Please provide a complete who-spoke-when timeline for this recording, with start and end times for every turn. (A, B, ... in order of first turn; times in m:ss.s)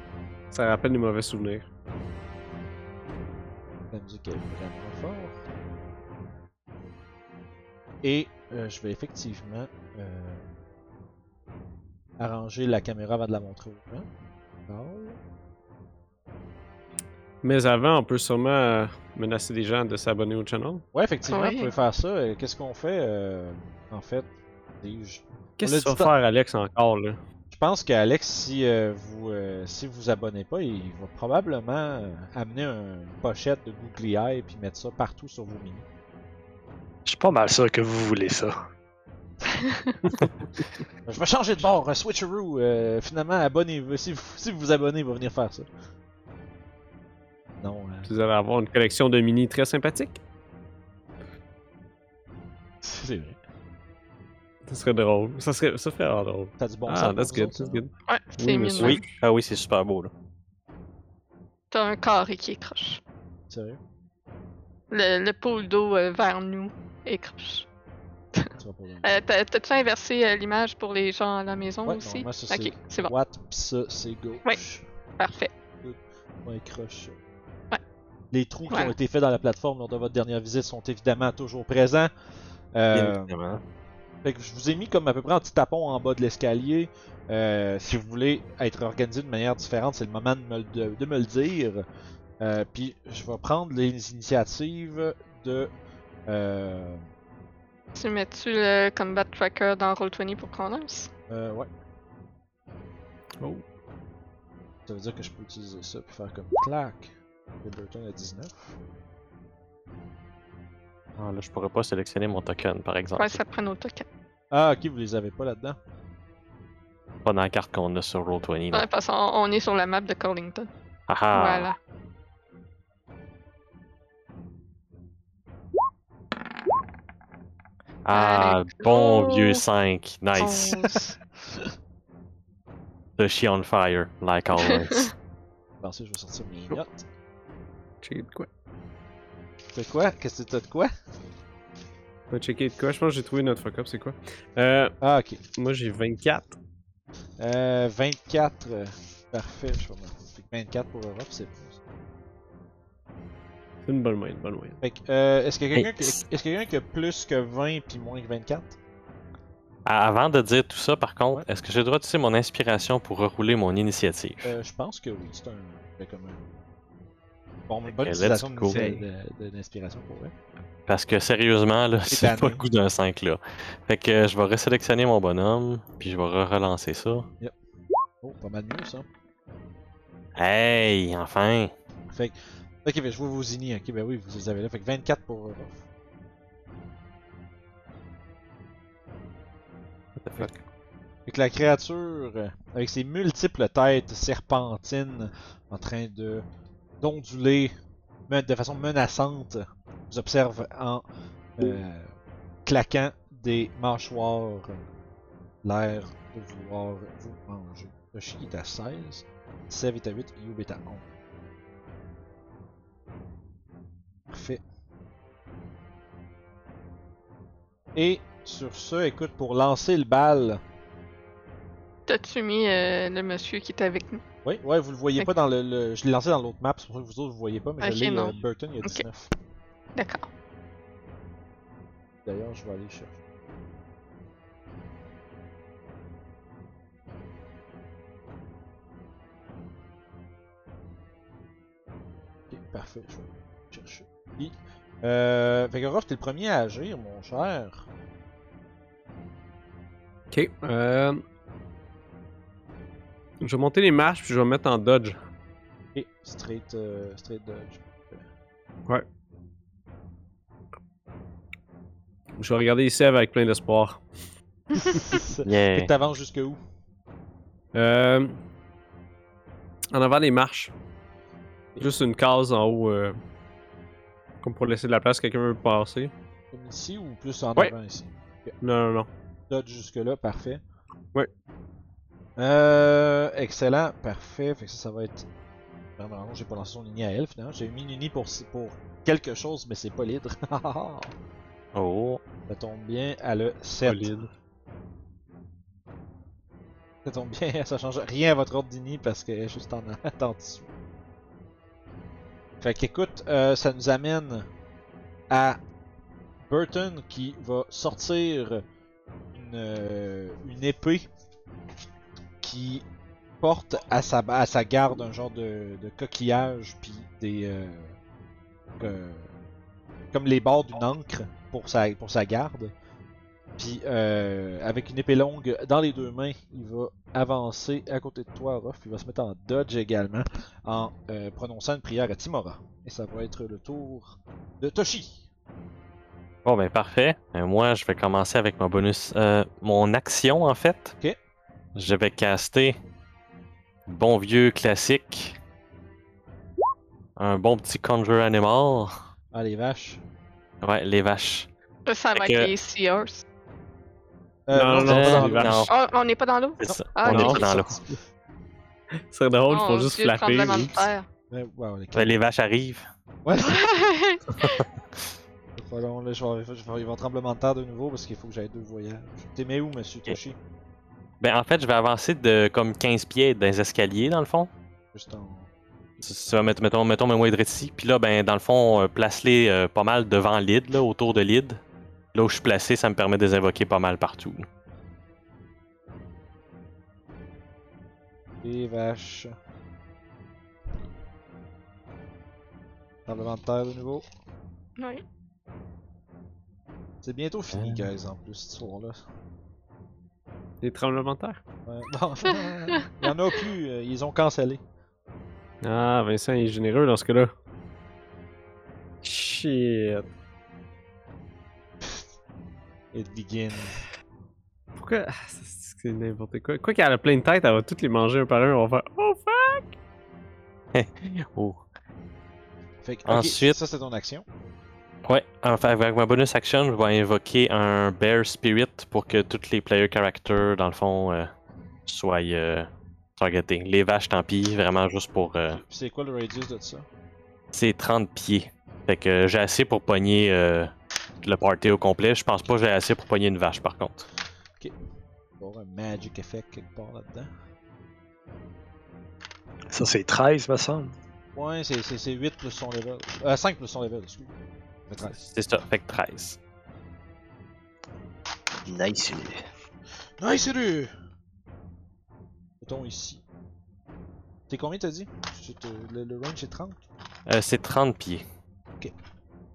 0:00.5-0:01.7 A
0:03.9-0:05.4 B
0:08.0-0:10.4 B
0:12.2-0:14.1 B
0:14.7-0:15.2 B
0:17.4-0:20.8 A
0:20.9-0:24.3 B
0:21.3-0:21.7 C
0:24.8-0:26.1 B
0:25.6-0:27.2 A
0:27.5-0:35.8 B
0:37.0-0:38.6 D
0:39.5-0:40.0 C
0:41.0-0:45.7 B
0:47.6-0:48.1 B
0:48.0-0:50.2 A
0:52.8-0:53.4 B
0:54.6-0:59.1 A
0:56.6-0:57.8 B
0:58.1-0:59.0 C
0:58.8-1:00.1 E
1:01.7-1:03.0 C
1:03.5-1:03.8 B
1:04.9-1:07.6 C
1:08.5-1:09.2 B
1:09.0-1:13.1 C
1:11.8-1:14.8 B
1:15.2-1:15.5 C
1:15.8-1:17.2 B
1:18.3-1:22.1 B
1:22.7-1:23.3 B
1:22.9-1:23.6 E
1:24.2-1:31.8 B
1:32.4-1:35.7 B
1:36.3-1:37.1 B
1:37.9-1:41.1 C
1:41.3-1:41.7 B
1:44.9-1:48.8 B
1:51.2-1:53.4 E
1:53.2-1:54.0 C
1:54.5-1:55.8 B
1:57.2-1:58.9 E
1:58.7-2:00.7 C
2:01.1-2:01.7 E
2:01.3-2:01.8 C
2:08.0-2:10.8 E
2:08.1-2:09.6 C
2:10.4-2:11.1 C
2:13.2-2:15.1 E
2:14.6-2:15.1 C
2:15.8-2:17.0 B
2:18.0-2:18.5 A
2:19.7-2:20.9 B
2:22.3-2:24.9 A
2:25.0-2:25.4 B
2:25.5-2:26.6 A
2:27.4-2:31.8 B
2:33.8-2:34.8 A
2:34.8-2:38.8 B
2:35.7-2:36.2 E
2:39.8-2:44.5 E
2:44.4-2:46.4 B
2:47.7-2:50.3 B
2:47.9-2:48.8 E
2:48.7-2:49.0 A
2:50.9-2:57.3 E
2:52.1-2:52.6 B
2:58.2-2:59.1 B
3:00.4-3:01.7 E
3:02.1-3:05.8 B
3:10.2-3:10.6 E
3:11.2-3:16.4 B
3:17.0-3:17.7 B
3:18.3-3:21.0 B
3:21.6-3:22.1 B
3:22.6-3:24.8 B
3:25.6-3:31.1 B
3:34.3-3:34.6 B
3:37.9-3:40.6 B
3:42.1-3:44.2 C
3:44.4-3:49.3 B
3:47.8-3:49.0 C
3:50.0-3:50.2 C
3:52.2-3:53.1 B
4:02.5-4:07.9 B
4:10.3-4:11.2 A
4:13.4-4:15.2 A
4:15.9-4:18.2 B
4:22.4-4:24.0 A
4:24.7-4:26.6 B
4:25.4-4:25.9 E
4:27.7-4:28.4 A
4:29.9-4:30.7 A
4:31.8-4:33.2 A
4:34.4-4:36.1 A
4:36.5-4:38.5 B
4:38.6-4:39.1 A
4:39.5-4:40.6 B
4:42.4-4:45.3 B
4:46.0-4:51.1 B
4:51.7-4:52.2 E
4:52.5-4:54.1 B
4:53.8-4:54.3 A
4:57.0-5:00.7 B
5:02.6-5:04.5 B
5:05.3-5:05.6 B
5:06.5-5:08.6 B
5:09.3-5:11.1 B
5:12.4-5:12.8 B
5:13.4-5:18.0 B
5:18.8-5:19.3 B
5:20.1-5:22.7 B
5:23.6-5:35.3 B
5:36.4-5:41.0 E
5:41.7-5:42.8 E
5:43.9-5:45.4 E
5:47.2-5:49.0 E
5:49.3-5:50.0 B
5:50.6-5:51.5 E
5:51.8-5:53.2 C
5:52.1-5:52.5 E
5:54.5-5:55.7 B
5:54.5-5:55.7 A
5:54.8-5:55.7 E
5:55.7-5:57.5 C
5:56.6-5:57.8 E
5:56.6-5:57.9 B
5:57.1-5:57.4 A
5:59.1-6:00.9 A
5:59.5-6:01.0 C
6:01.3-6:02.2 B
6:01.9-6:02.8 E
6:03.2-6:03.7 B
6:03.4-6:04.6 C
6:05.6-6:10.4 B
6:11.2-6:14.5 E
6:14.9-6:15.5 B
6:16.0-6:21.6 E
6:22.1-6:24.5 E
6:28.4-6:29.3 B
6:33.0-6:34.0 B
6:34.8-6:35.0 C
6:37.0-6:39.0 B
6:37.5-6:37.9 E
6:40.6-6:41.4 A
6:41.7-6:44.6 B
6:45.6-6:47.3 A
6:49.0-6:50.1 A
6:52.9-6:53.8 B
6:54.8-6:59.7 A
7:00.7-7:01.6 E
7:02.8-7:04.2 B
7:03.0-7:03.6 E
7:05.0-7:11.3 E
7:11.8-7:15.6 E
7:15.5-7:16.8 B
7:17.5-7:24.1 E
7:25.4-7:27.3 B
7:29.7-7:30.9 D
7:31.4-7:34.4 B
7:34.9-7:35.2 B
7:35.1-7:36.4 E
7:38.6-7:39.4 D
7:40.2-7:40.9 B
7:42.6-7:43.2 B
7:44.5-7:46.8 B
7:47.2-7:48.2 E